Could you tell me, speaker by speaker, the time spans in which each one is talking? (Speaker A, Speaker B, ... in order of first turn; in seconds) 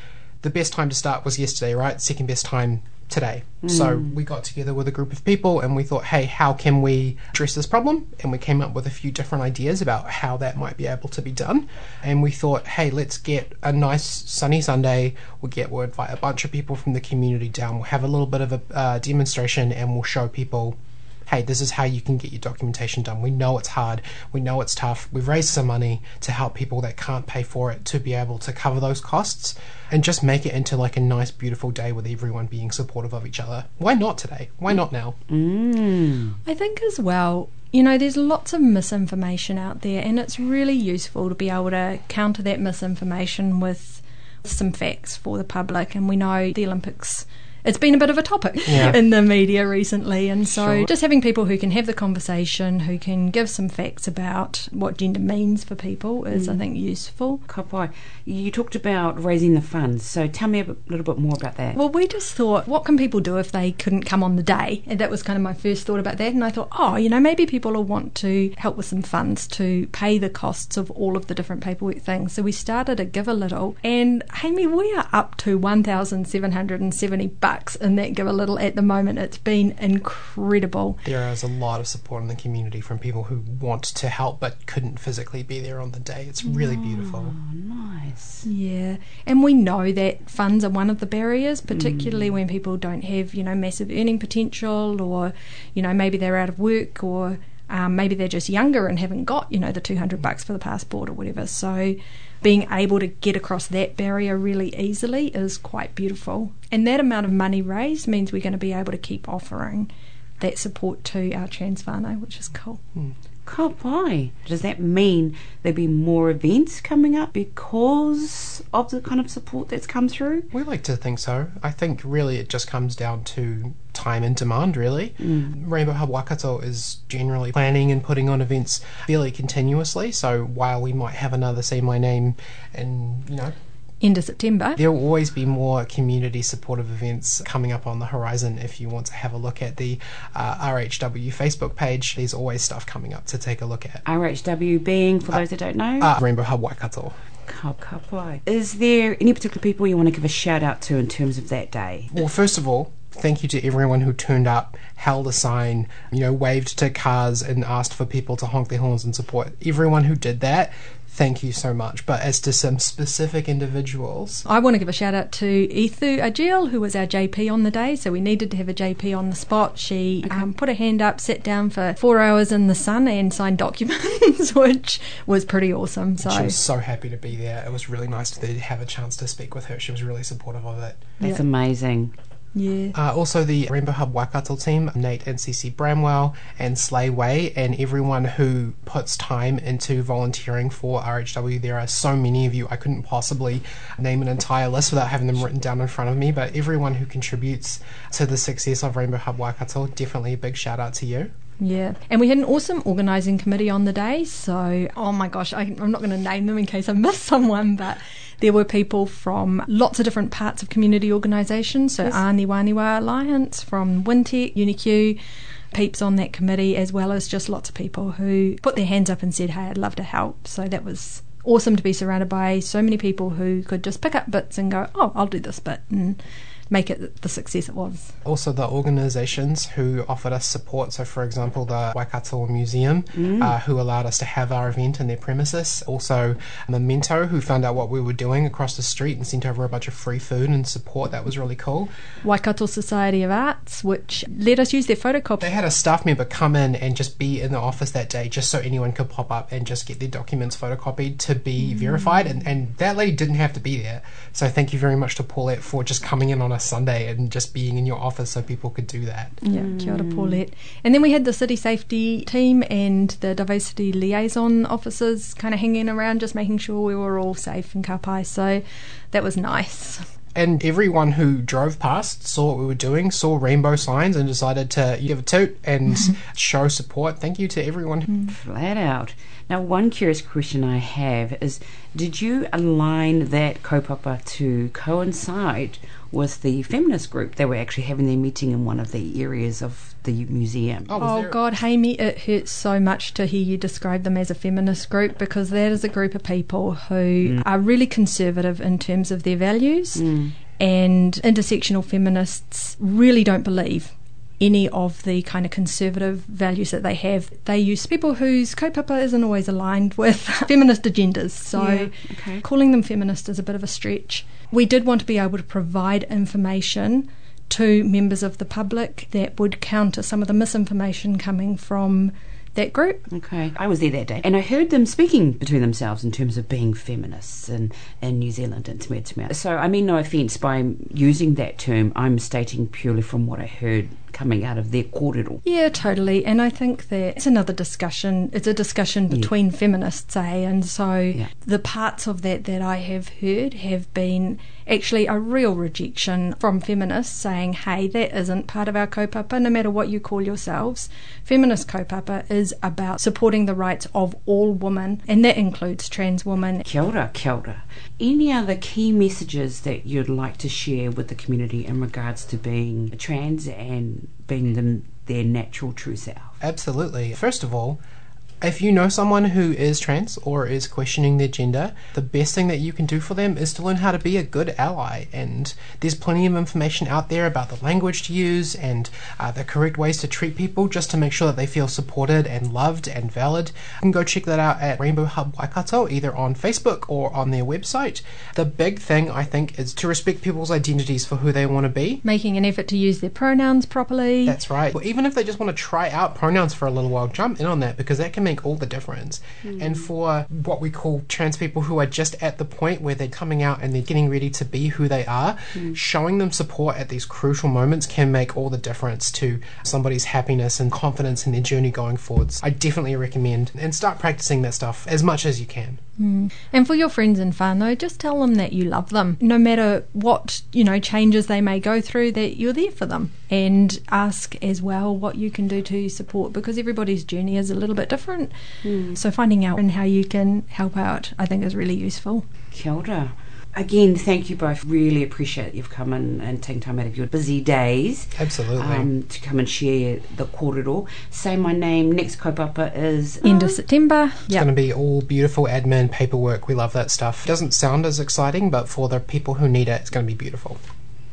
Speaker A: 0.4-35.2, 48.7-49.0, 50.5-50.9, 81.0-87.3, 120.5-133.5, 134.8-144.0, 146.0-147.2, 152.1-164.4, 176.2-181.1, 182.9-201.3, 228.2-241.9, 245.4-259.4, 270.3-278.1, 290.9-291.4, 366.4-367.8, 368.4-392.0, 394.2-415.8, 438.2-438.9, 444.3-450.6
Speaker B: 3.6-4.1, 35.3-36.4, 56.3-56.6, 57.5-61.8, 86.4-88.4, 91.7-92.3, 113.5-120.5, 125.2-125.5, 144.0-146.1, 147.5-152.1, 170.2-170.5, 181.2-182.1, 233.2-233.5, 259.5-260.4, 278.3-290.9, 299.9-300.3, 311.6-312.4, 323.1-335.4, 356.6-366.3, 399.4-399.8, 428.6-429.0, 432.5-443.6
Speaker C: 36.5-57.4, 61.7-81.0, 88.4-109.9, 110.4-112.8, 134.0-134.8, 164.4-176.5, 182.5-182.9, 201.6-215.2, 215.7-226.2, 226.7-228.1, 242.2-245.5, 259.4-270.0, 291.0-300.1, 300.6-311.9, 312.4-323.1, 335.4-356.6, 392.0-394.4, 416.0-428.3, 428.9-432.2, 443.2-444.5